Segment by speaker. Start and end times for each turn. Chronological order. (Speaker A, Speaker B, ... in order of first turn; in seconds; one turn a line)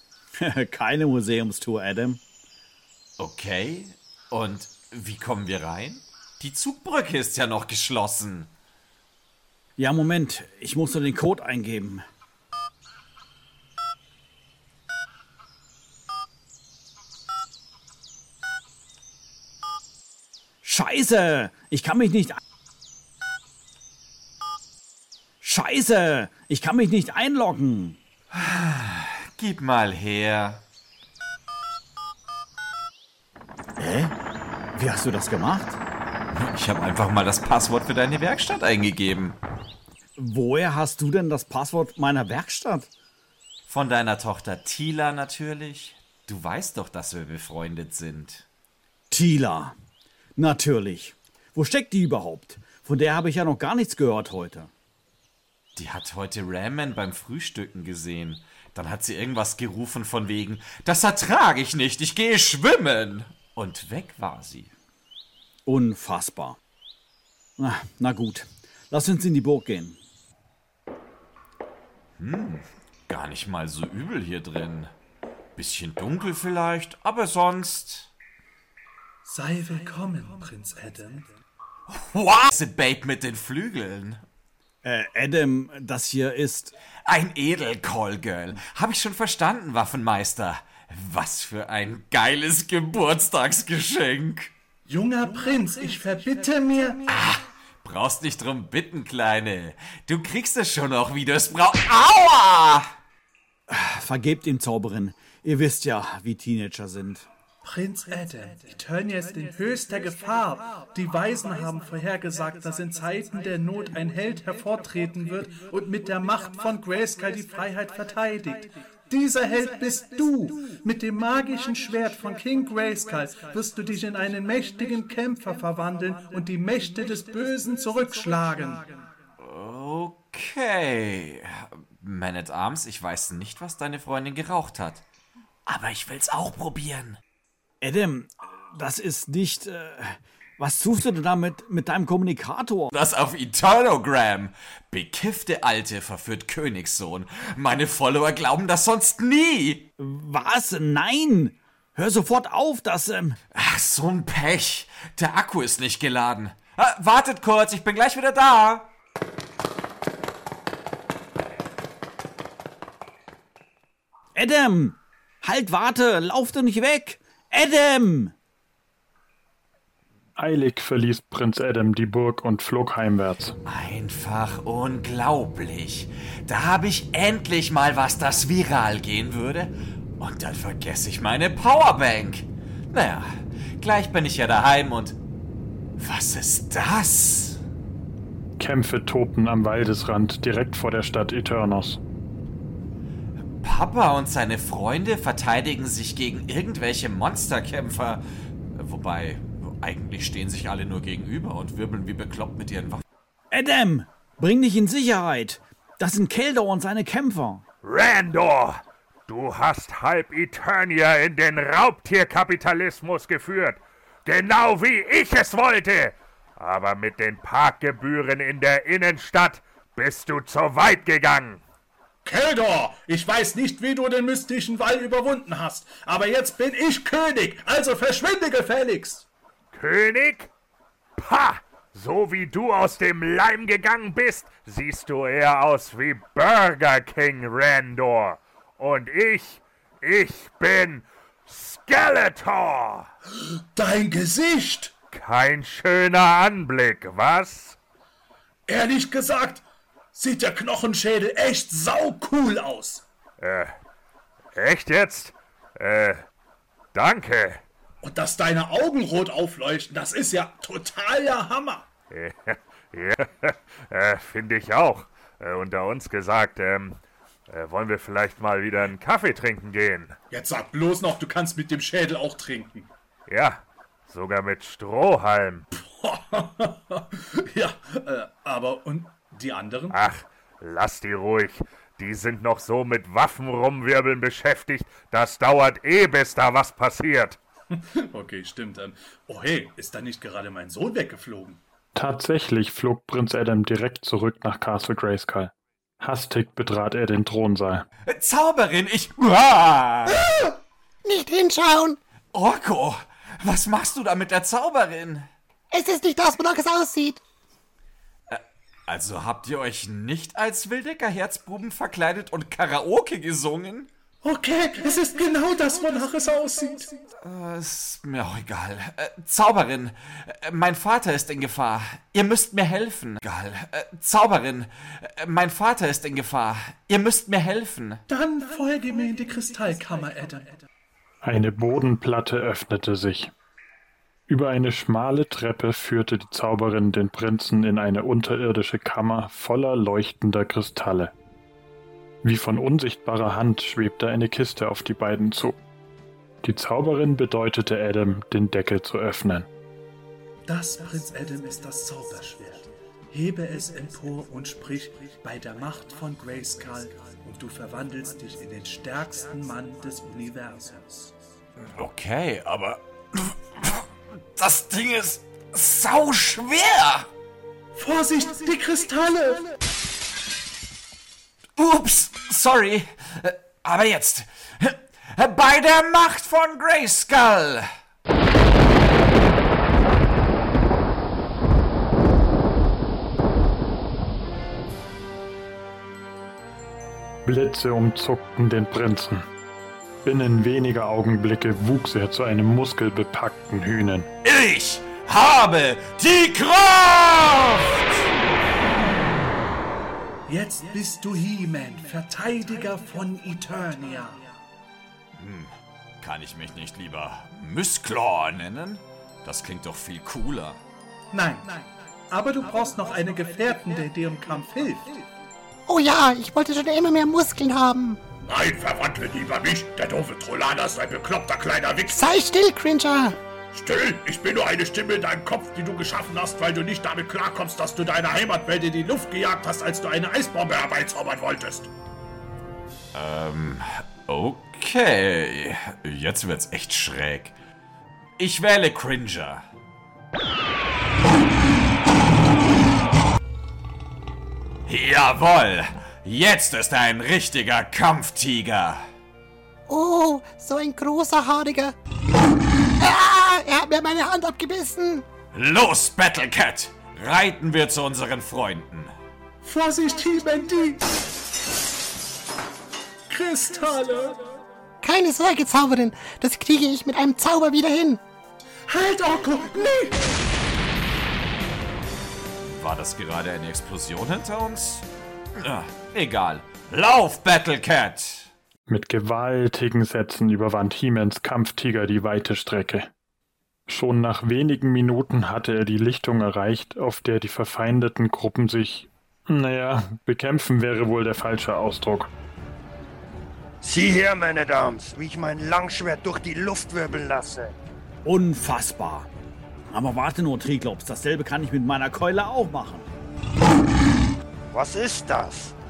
Speaker A: 0.4-2.2
Speaker B: 3.2-8.5
Speaker A: 9.8-12.1
Speaker A: 20.6-22.4
Speaker A: 25.4-28.0
Speaker B: 28.3-30.6
Speaker A: 33.8-34.2
Speaker A: 34.7-35.8
Speaker B: 36.3-39.4
Speaker A: 40.2-42.9
Speaker B: 43.7-48.5
Speaker A: 49.1-49.8
Speaker A: 50.4-54.7
Speaker B: 55.8-64.7
Speaker A: 65.7-66.6
Speaker A: 67.6-70.0
Speaker B: 72.2-74.9
Speaker B: 75.6-78.1
Speaker C: 79.2-81.3
Speaker B: 81.9-84.2
Speaker A: 84.8-86.7
Speaker B: 87.1-94.5
Speaker C: 94.9-97.0
Speaker B: 97.1-102.9
Speaker A: 103.7-107.3
Speaker C: 107.6-129.0
Speaker B: 129.4-135.0
Speaker B: 135.7-137.2
Speaker A: 137.8-142.9
Speaker B: 142.9-149.9
Speaker A: 150.0-153.4
Speaker B: 153.5-158.9
Speaker A: 164.3-168.3
Speaker D: 170.4-173.6
Speaker B: 173.7-185.2
Speaker B: 186.0-187.6
Speaker D: 188.6-192.0
Speaker B: 193.6-198.2
Speaker B: 198.8-203.0
Speaker A: 203.5-207.6
Speaker E: 207.8-221.6
Speaker C: 222.3-229.3
Speaker E: 229.7-230.5
Speaker E: 231.2-243.1
Speaker C: 243.8-244.9
Speaker E: 245.1-247.8
Speaker C: 248.7-249.6
Speaker C: 250.1-253.0
Speaker E: 253.4-253.8
Speaker E: 254.6-256.2
Speaker E: 256.9-257.6
Speaker C: 258.0-261.9
Speaker E: 262.1-270.2
Speaker C: 270.3-272.9
Speaker E: 273.3-275.6
Speaker C: 276.0-280.0
Speaker E: 279.9-287.4
Speaker C: 287.7-291.6
Speaker D: 291.9-297.9
Speaker B: 298.1-300.3
Speaker F: 301.0-302.0
Speaker B: 302.3-305.3
Speaker F: 305.7-307.2
Speaker B: 308.3-313.9
Speaker C: 314.2-317.0
Speaker B: 317.2-328.0
Speaker C: 328.1-330.6
Speaker D: 331.2-333.3
Speaker D: 334.3-341.1
Speaker D: 342.2-345.6
Speaker D: 346.4-349.5
Speaker C: 350.5-361.1
Speaker B: 361.8-363.9
Speaker B: 364.4-367.1
Speaker C: 367.8-369.4
Speaker B: 371.6-377.7
Speaker D: 387.2-389.3
Speaker D: 390.0-394.1
Speaker B: 394.2-398.0
Speaker C: 400.3-404.3
Speaker B: 405.2-410.6
Speaker C: 411.1-415.1
Speaker F: 415.7-418.0
Speaker G: 418.2-422.1
Speaker F: 421.9-423.2
Speaker G: 423.5-431.7
Speaker B: 432.9-437.4
Speaker B: 438.2-439.4
Speaker B: 444.7-448.8
Speaker F: 449.7-451.8
Speaker F: 452.8-455.1
Speaker B: 455.3-458.9
Speaker C: 459.4-460.9
Speaker C: 463.1-464.2
Speaker F: 464.8-468.0
Speaker C: 468.7-470.0
Speaker B: 472.4-474.9
Speaker B: 475.4-478.3
Speaker D: 478.7-482.9
Speaker D: 483.7-492.1
Speaker H: 493.6-497.5
Speaker A: 498.0-499.1
Speaker A: 499.7-502.9
Speaker H: 504.5-505.5